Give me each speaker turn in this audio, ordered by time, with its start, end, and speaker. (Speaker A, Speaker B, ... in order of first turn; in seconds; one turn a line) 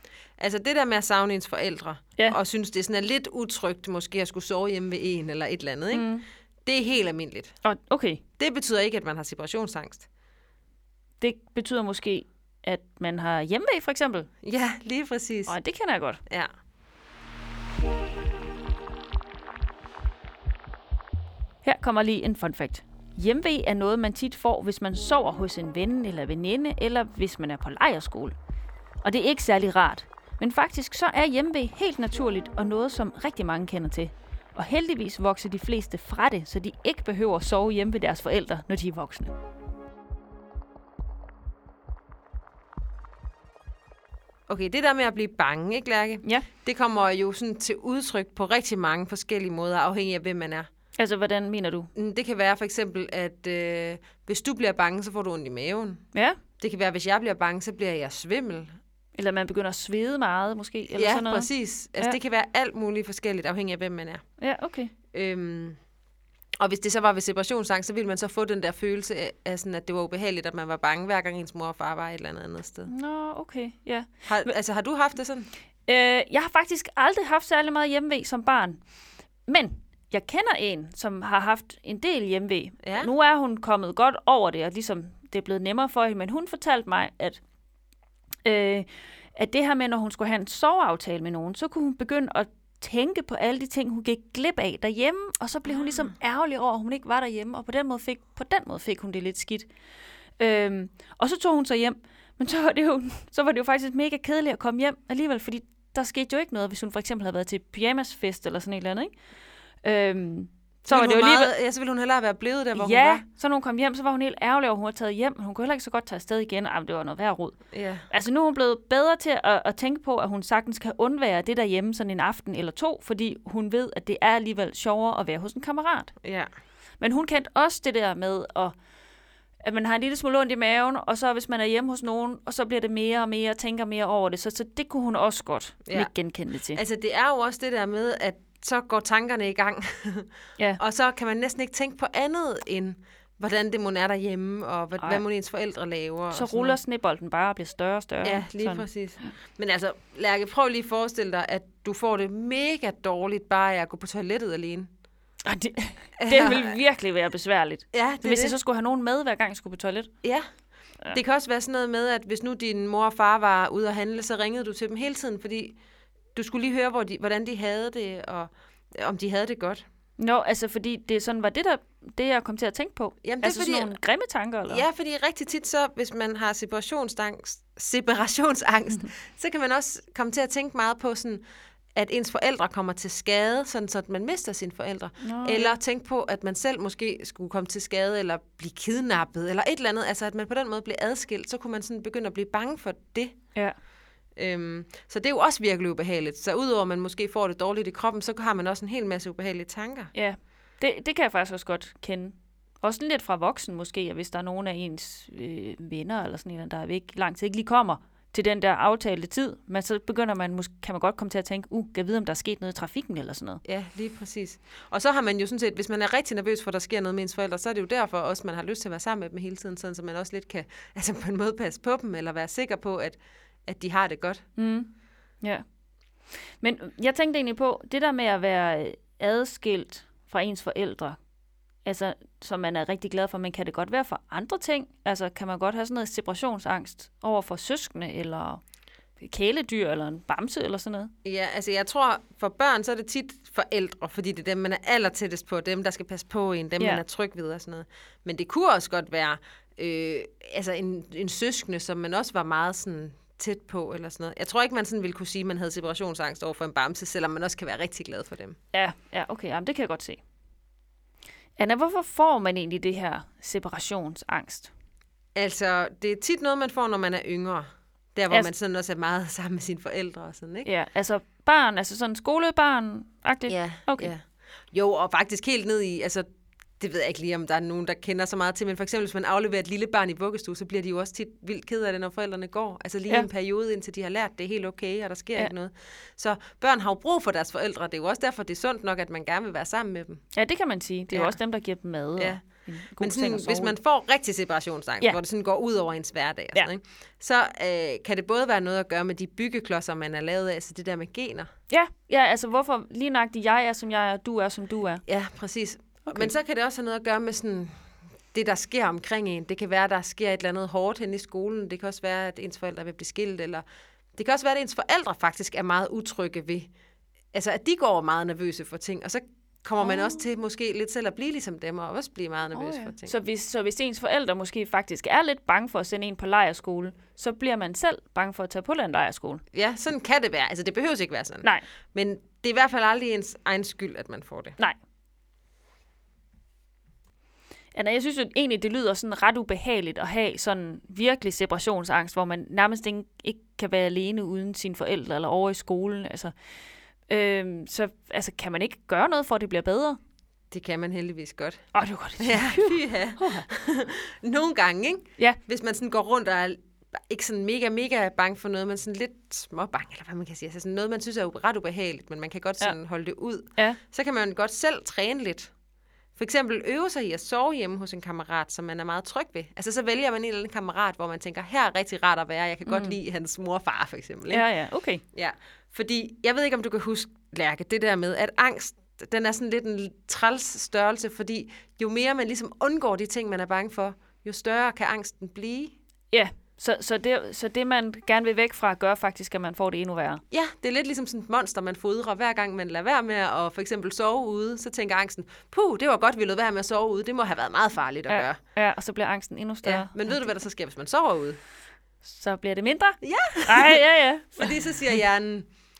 Speaker A: 0.4-7.5
Speaker B: 5.9-6.2
Speaker B: 7.6-8.2
Speaker A: 8.4-10.1
Speaker B: 11.2-14.3
Speaker A: 14.4-15.6
Speaker B: 15.4-16.2
Speaker B: 21.6-28.4
Speaker B: 29.0-39.3
Speaker A: 44.5-50.7
Speaker B: 51.0-51.9
Speaker A: 51.9-56.0
Speaker B: 56.1-56.4
Speaker A: 56.6-58.8
Speaker B: 59.1-62.2
Speaker A: 60.9-64.2
Speaker B: 64.4-64.9
Speaker A: 65.1-65.8
Speaker A: 66.6-72.9
Speaker B: 72.8-74.5
Speaker A: 74.2-75.5
Speaker B: 75.9-78.8
Speaker B: 79.5-87.4
Speaker A: 82.8-83.1
Speaker B: 88.4-99.7
Speaker A: 95.7-96.2
Speaker B: 100.4-109.1
Speaker B: 109.8-111.5
Speaker A: 110.8-113.2
Speaker B: 112.7-117.6
Speaker A: 117.7-118.1
Speaker B: 118.1-126.1
Speaker A: 126.2-126.5
Speaker B: 127.0-128.8
Speaker B: 129.6-136.8
Speaker A: 136.7-146.8
Speaker B: 146.3-148.9
Speaker A: 148.2-154.9
Speaker B: 155.4-160.1
Speaker A: 156.2-156.8
Speaker A: 157.9-158.6
Speaker A: 161.1-165.8
Speaker A: 166.3-169.8
Speaker B: 170.2-174.9
Speaker A: 173.2-173.9
Speaker A: 174.7-181.4
Speaker A: 181.9-193.4
Speaker B: 185.2-185.8
Speaker A: 194.4-200.1
Speaker B: 200.1-213.6
Speaker A: 213.7-224.4
Speaker B: 224.6-224.9
Speaker B: 226.4-231.2
Speaker B: 231.8-238.6
Speaker B: 239.2-241.1
Speaker A: 241.2-258.6
Speaker B: 258.7-260.2
Speaker B: 261.6-264.7
Speaker A: 265.3-270.7
Speaker B: 270.6-274.1
Speaker A: 273.5-276.3
Speaker A: 276.8-290.2
Speaker B: 290.3-293.8
Speaker A: 291.1-291.4
Speaker A: 293.0-301.5
Speaker B: 301.7-305.0
Speaker A: 305.1-307.7
Speaker B: 306.1-306.3
Speaker A: 308.3-313.6
Speaker A: 314.1-316.7
Speaker A: 317.3-323.1
Speaker B: 319.8-320.2
Speaker B: 322.6-329.4
Speaker A: 329.5-334.6
Speaker B: 337.8-346.3
Speaker B: 347.1-350.0
Speaker A: 350.5-365.5
Speaker B: 351.7-353.5
Speaker A: 366.2-374.5
Speaker B: 372.7-373.0
Speaker B: 374.3-375.0
Speaker A: 375.1-385.7
Speaker B: 386.1-390.2
Speaker A: 390.3-398.4
Speaker B: 398.1-400.3
Speaker A: 399.6-401.4
Speaker B: 402.0-404.6
Speaker A: 403.0-405.5